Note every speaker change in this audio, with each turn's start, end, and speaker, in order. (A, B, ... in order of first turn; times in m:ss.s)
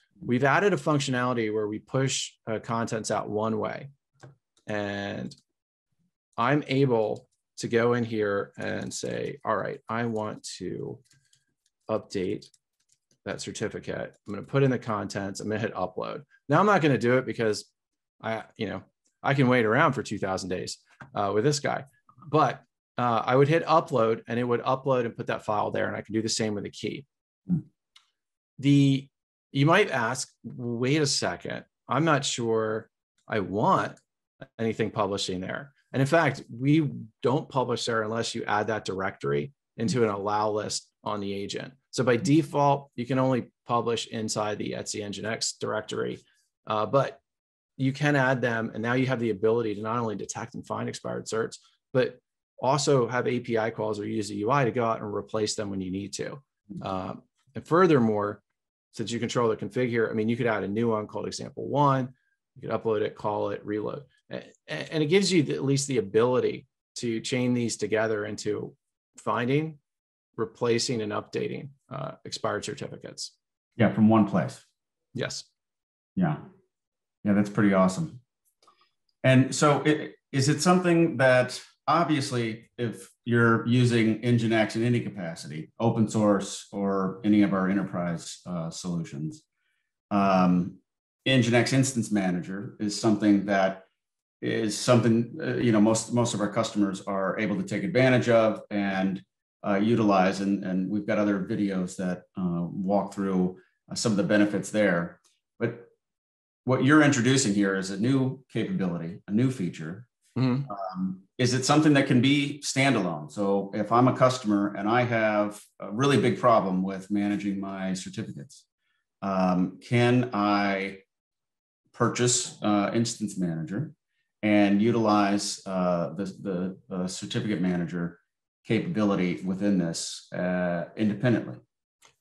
0:00.2-0:03.9 A
0:04.7-0:05.4 A
0:06.4-0:11.0 A
0:11.9-0:12.5 A
0:13.2-0:17.7 A
0:18.2-0:27.1 A
0:28.6-0:34.0 A
0:34.6-0:47.2 A
0:47.8-0:58.4 A
0:58.9-1:09.8 A
1:10.4-1:13.3 A
1:13.8-1:14.6 B
1:15.2-1:15.5 A
1:16.2-1:16.4 B
1:17.2-1:18.2 B
1:19.2-1:29.4 B
1:30.1-1:33.8 B
1:34.4-1:45.9 B
1:46.7-1:50.1 B
1:50.4-1:50.7 A
1:50.7-1:58.6 B
1:59.2-2:01.0 B
2:01.9-2:11.6 B